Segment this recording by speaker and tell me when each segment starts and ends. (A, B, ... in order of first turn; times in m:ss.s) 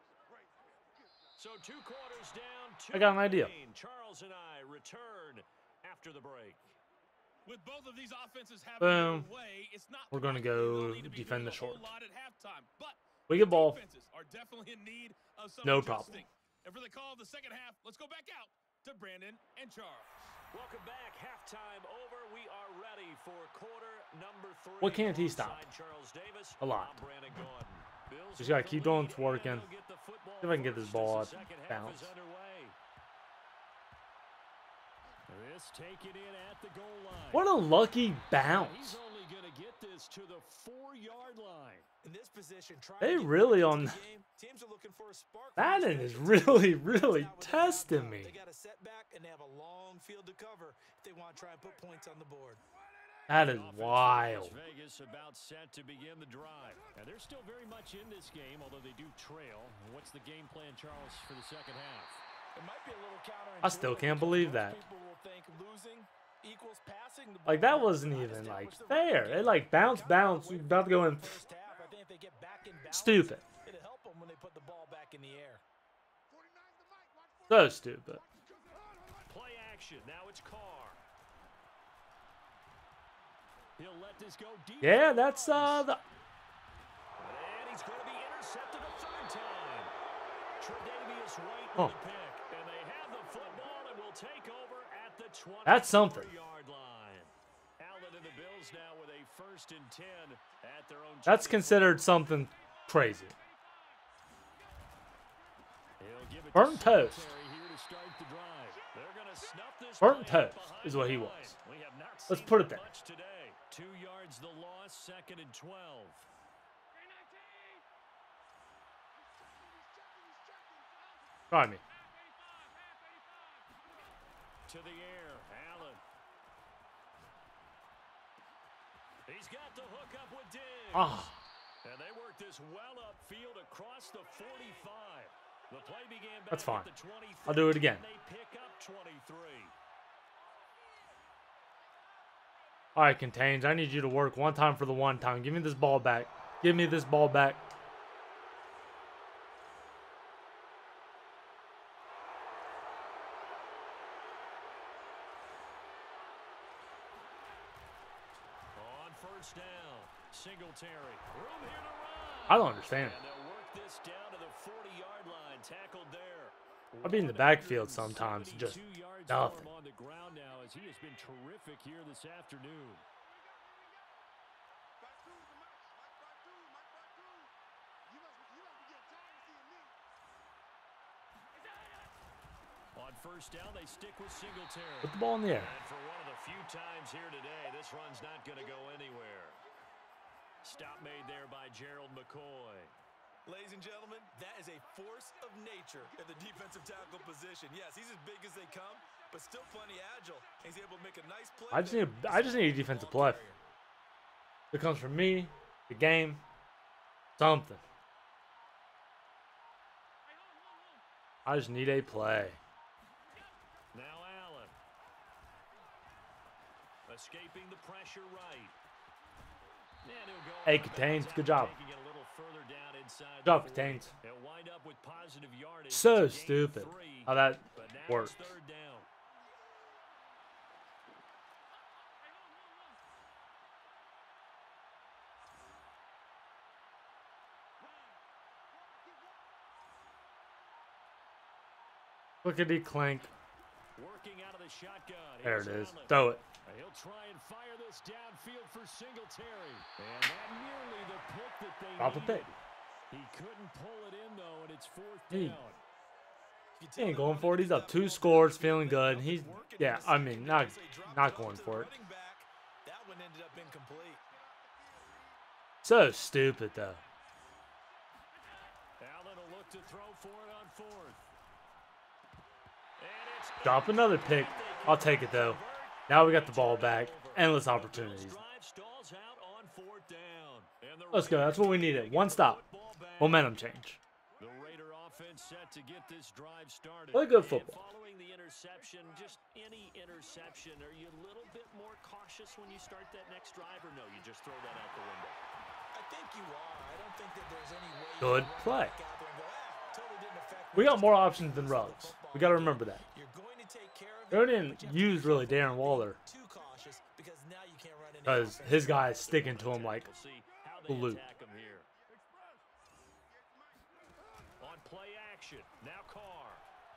0:01.4-0:06.7 A
0:02.9-0:03.5 B
0:07.4-0:12.9 C
0:07.5-0:10.1 D
0:08.8-0:09.3 B
0:10.1-0:11.9 B
0:10.8-0:12.9 D
0:13.3-0:13.8 B
0:13.6-0:16.2 D
0:14.0-0:14.9 C
0:15.6-0:16.0 C
0:15.6-0:16.2 B
0:16.6-0:18.3 C
0:16.7-0:20.0 D
0:20.5-0:32.8 A
0:24.8-0:25.7 B
0:26.6-0:27.0 B
0:28.4-0:29.7 B
0:30.4-0:32.1 B
0:35.3-0:37.5 A
0:37.3-0:39.0 B
0:38.3-0:41.9 A
0:42.0-0:52.6 D
0:43.0-0:44.0 B
0:45.6-0:48.4 B
0:53.3-0:54.6 B
0:53.3-1:02.2 A
1:02.5-1:15.6 D
1:03.6-1:04.8 B
1:07.4-1:11.4 B
1:12.9-1:13.4 B
1:17.5-1:18.2 B
1:19.2-1:21.0 A
1:23.8-1:25.9 A
1:24.8-1:26.0 B
1:27.2-1:29.9 A
1:30.6-1:42.1 A
1:35.6-1:36.3 B
1:41.2-1:43.4 B
1:46.0-1:56.3 A
1:46.5-1:47.3 B
1:50.0-1:51.6 B
1:52.3-1:52.9 B
2:01.5-2:01.8 B
2:04.7-2:06.0 A
2:09.2-2:11.3 A
2:10.9-2:11.4 B
2:11.8-2:19.7 A
2:16.5-2:16.9 B
2:17.4-2:18.0 B
2:22.9-2:27.7 B
2:38.7-2:53.0 A
2:42.5-2:43.2 B
2:47.0-2:49.7 B
3:02.9-3:09.6 A
3:05.0-3:05.7 B
3:10.6-3:12.9 A
3:13.4-3:23.6 D
3:21.7-3:23.4 B
3:24.7-3:26.4 B
3:27.4-3:27.8 B
3:31.4-3:32.6 B
3:33.9-3:34.7 A
3:37.1-3:38.8 A
3:40.0-3:49.1 A
3:40.6-3:41.7 B
3:43.4-3:44.1 B
3:45.9-3:48.5 B
4:02.4-4:03.3 B
4:04.0-4:12.6 A
4:05.4-4:06.4 B
4:12.0-4:12.5 B
4:13.1-4:15.8 A
4:15.3-4:15.6 B
4:16.8-4:24.2 D
4:17.0-4:21.9 B
4:25.8-4:27.0 B
4:29.0-4:31.3 A
4:33.0-4:43.5 A
4:33.6-4:38.4 B
4:41.1-4:42.6 B
4:43.2-4:44.0 B
4:44.4-4:55.4 A
4:47.1-4:47.8 B
4:55.9-5:09.0 D
4:58.2-4:59.0 B
5:00.7-5:03.0 B
5:04.3-5:06.2 B
5:08.2-5:10.1 B
5:09.0-5:11.9 A
5:10.9-5:11.2 B
5:14.6-5:16.6 A